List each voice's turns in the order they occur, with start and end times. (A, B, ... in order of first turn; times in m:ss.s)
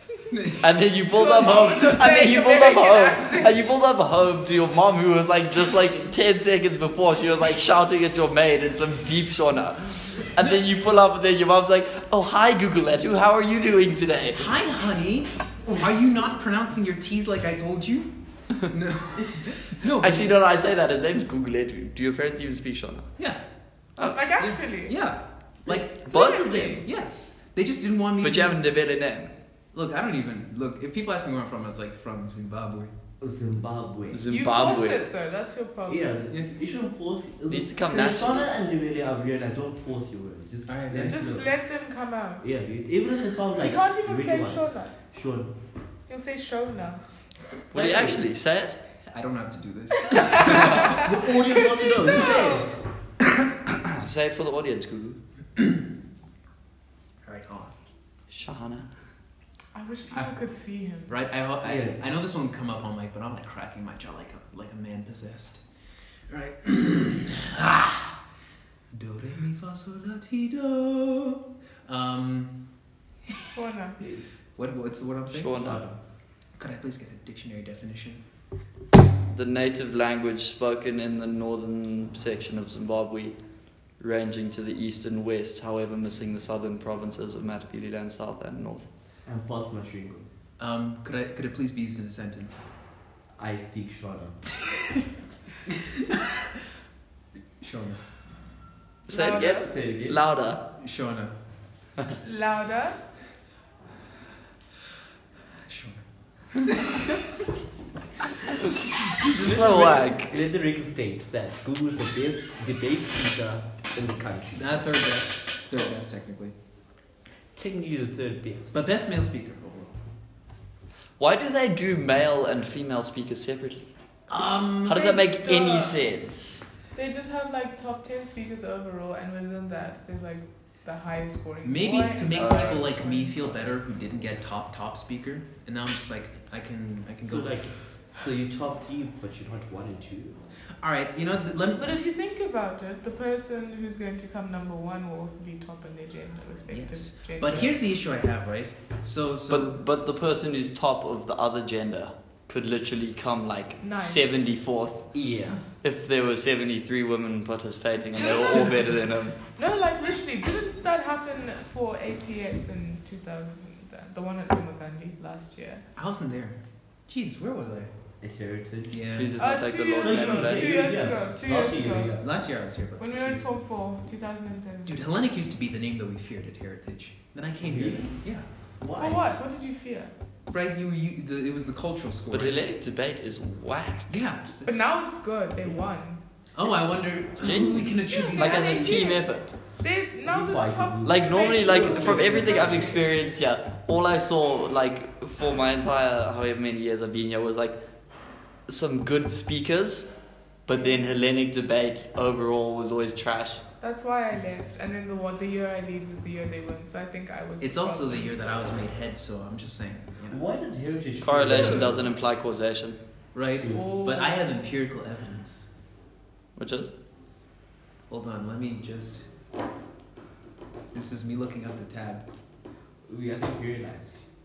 0:00.3-0:00.8 A
0:00.6-0:14.5 B
0:01.1-0:03.7 C
0:14.4-0:20.4 A
0:19.9-0:23.1 B
0:24.1-0:25.0 C
0:24.4-0:25.9 A
0:26.0-0:26.8 C
0:26.0-0:26.8 B
0:26.8-0:28.6 A
0:28.2-0:29.3 B
0:29.7-0:32.9 A
0:33.2-0:34.7 D
0:34.1-0:35.0 B
0:34.3-0:36.2 C
0:35.9-0:41.5 D
0:37.5-0:38.5 B
0:37.9-0:38.2 A
0:40.7-0:41.2 A
0:41.1-0:42.5 C
0:42.4-0:45.5 D
0:43.6-0:45.0 C
0:46.1-0:47.0 C
0:47.7-0:48.3 D
0:47.7-0:48.8 B
0:49.1-0:51.0 A
0:50.1-0:52.7 C
0:50.3-0:50.6 B
0:50.6-0:52.9 D
0:53.7-0:55.2 B
0:57.2-0:57.8 A
0:58.3-0:58.9 B
0:59.7-1:01.1 C
1:01.1-1:05.6 A
1:01.6-1:02.0 D
1:06.3-1:08.2 A
1:08.9-1:12.6 A
1:13.5-1:14.0 C
1:14.6-1:15.6 A
1:15.3-1:15.8 B
1:15.6-1:16.0 D
1:16.6-1:18.2 A
1:19.3-1:23.4 B
1:24.0-1:28.9 B
1:29.2-1:30.3 D
1:30.6-1:32.6 A
1:33.4-1:34.4 D
1:34.6-1:35.1 A
1:37.6-1:38.0 A
1:39.1-1:40.6 B
1:39.1-1:39.7 C
1:39.4-1:40.2 D
1:40.8-1:41.4 A
1:42.2-1:43.0 C
1:45.6-1:46.0 A
1:46.6-1:47.0 A
1:49.1-1:50.3 B
1:49.4-1:54.7 D
1:54.5-1:56.6 A
1:57.6-1:58.9 D
1:58.7-2:00.0 A
2:01.2-2:03.9 B
2:04.3-2:05.1 A
2:04.8-2:06.6 B
2:04.8-2:06.1 C
2:06.9-2:13.5 C
2:11.6-2:17.6 A
2:12.4-2:12.8 B
2:17.2-2:20.4 D
2:20.8-2:22.0 A
2:21.8-2:27.7 C
2:26.7-2:29.8 A
2:29.5-2:35.1 B
2:33.8-2:34.2 C
2:35.1-2:35.6 D
2:35.8-2:39.4 B
2:38.2-2:39.0 A
2:39.6-2:45.8 C
2:46.0-2:47.9 A
2:48.2-2:49.0 D
2:48.9-2:49.3 A
2:49.1-2:50.8 B
2:49.4-2:52.2 C
2:50.0-2:52.3 D
2:52.2-2:53.5 A
2:53.0-2:55.0 C
2:54.9-2:58.4 A
2:57.6-2:58.2 D
2:58.8-2:59.4 D
2:59.0-3:00.1 C
3:00.5-3:02.6 A
3:02.3-3:04.2 B
3:04.1-3:04.8 A
3:04.6-3:06.2 C
3:06.6-3:09.0 A
3:07.4-3:09.5 B
3:08.1-3:13.0 C
3:10.3-3:13.0 D
3:11.0-3:17.8 B
3:18.7-3:20.1 B
3:20.7-3:23.6 B
3:20.7-3:21.0 C
3:23.8-3:28.8 C
3:27.6-3:30.4 A
3:30.3-3:32.1 D
3:31.2-3:33.0 B
3:31.5-3:31.9 A
3:33.3-3:35.7 A
3:33.6-3:33.9 D
3:33.7-3:34.5 C
3:36.6-3:36.9 B
3:38.1-3:39.3 A
3:40.9-3:42.2 A
3:43.1-3:44.2 D